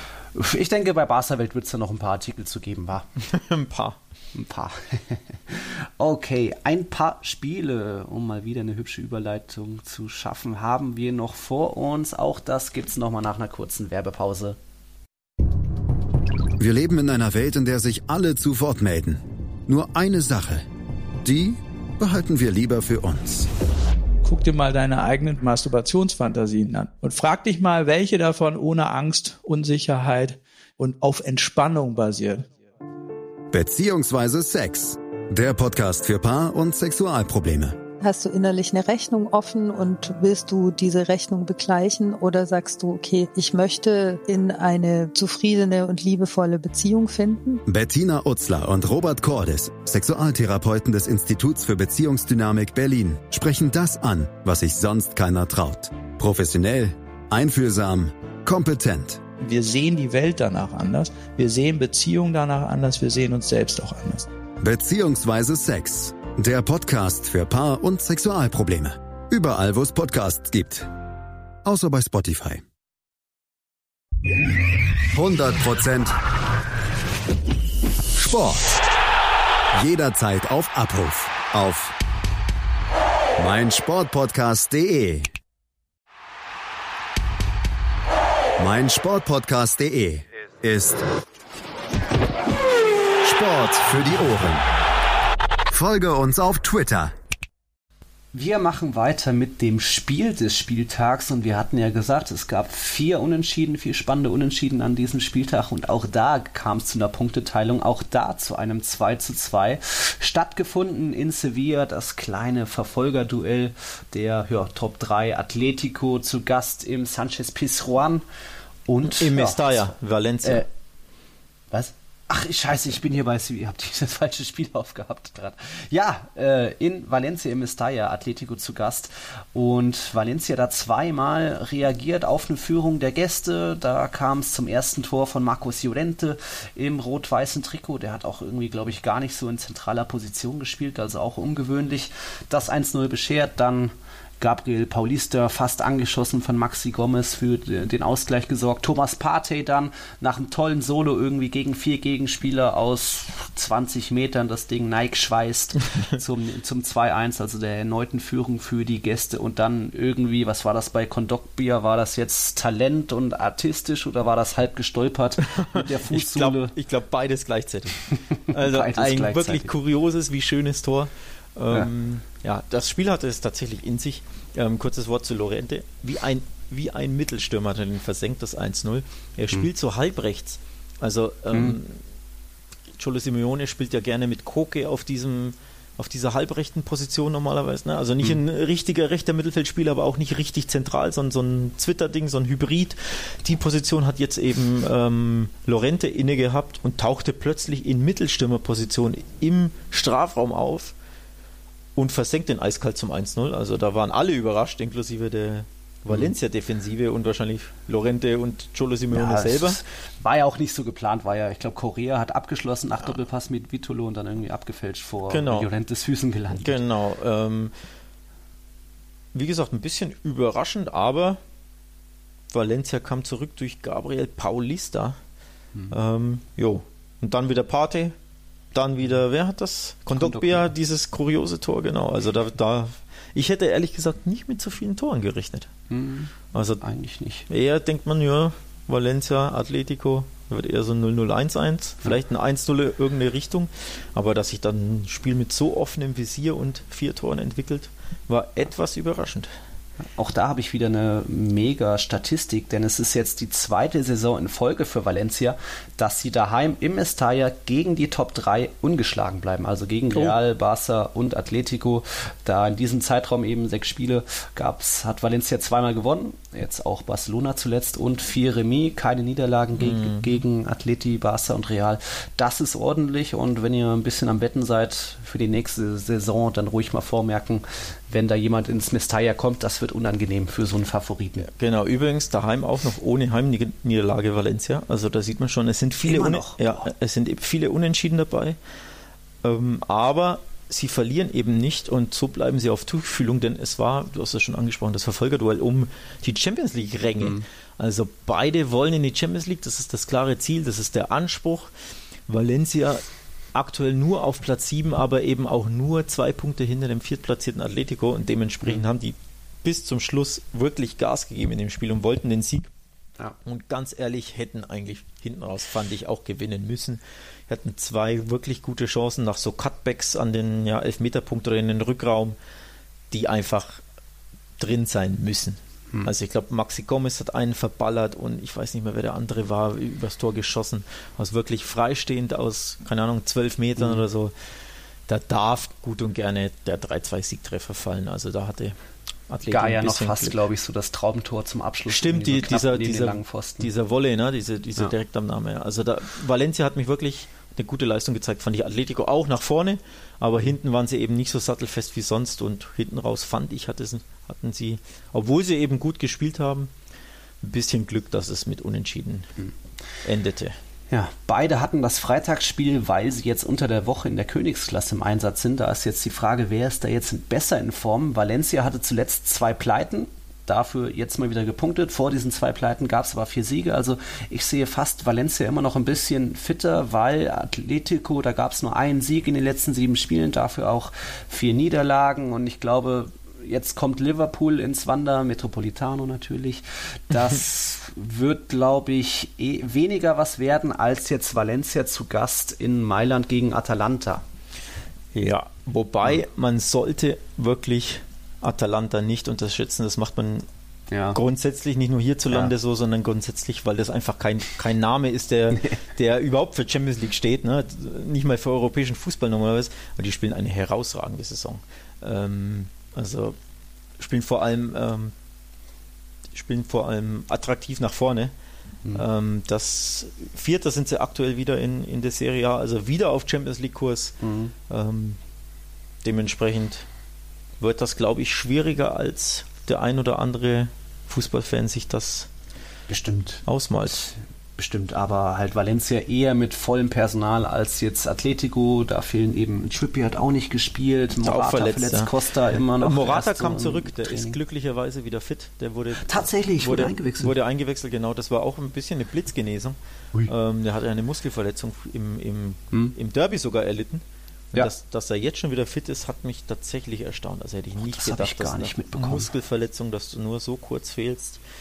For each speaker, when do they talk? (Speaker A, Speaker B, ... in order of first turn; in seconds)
Speaker A: 0.3-3.1, 4.3-14.6, 98.3-118.2, 118.9-120.7, 121.7-166.7, 168.1-169.7, 181.5-181.8, 209.1-216.8, 230.1-230.7, 235.9-237.5, 250.2-281.5, 286.1-286.9, 297.2-297.4, 333.8-334.0, 339.5-343.7, 360.9-394.2, 400.9-401.2, 424.2-424.5, 432.9-433.4, 434.1-444.4, 446.1-447.3, 457.8-459.3
Speaker B: 3.3-4.0, 119.0-120.7, 165.5-182.0, 183.0-200.9, 202.0-209.8, 215.3-215.7, 216.6-217.7, 219.3-221.4, 222.5-225.2, 225.9-228.2, 228.7-235.7, 236.5-236.8, 237.5-249.5, 269.8-270.3, 281.5-288.6, 289.4-301.7, 302.3-303.0, 303.5-312.7, 313.4-322.4, 323.1-323.8, 324.6-334.3, 335.1-338.8, 339.3-340.4, 341.9-356.7, 357.4-359.3, 360.0-360.6, 395.1-400.5, 401.1-413.4, 414.0-415.1, 416.3-418.3, 418.9-425.2, 426.0-426.9, 427.6-432.3, 433.5-434.1, 441.2-442.1, 442.8-461.4
Speaker C: 16.6-20.6, 21.2-23.5, 33.5-37.8, 47.7-59.2, 64.6-70.9, 71.6-72.6, 75.1-76.2, 78.2-78.8, 79.8-82.0, 83.4-85.3, 88.6-91.0, 93.2-94.7, 95.7-97.1
Speaker D: 24.2-32.5, 59.4-64.3
Speaker E: 38.0-47.6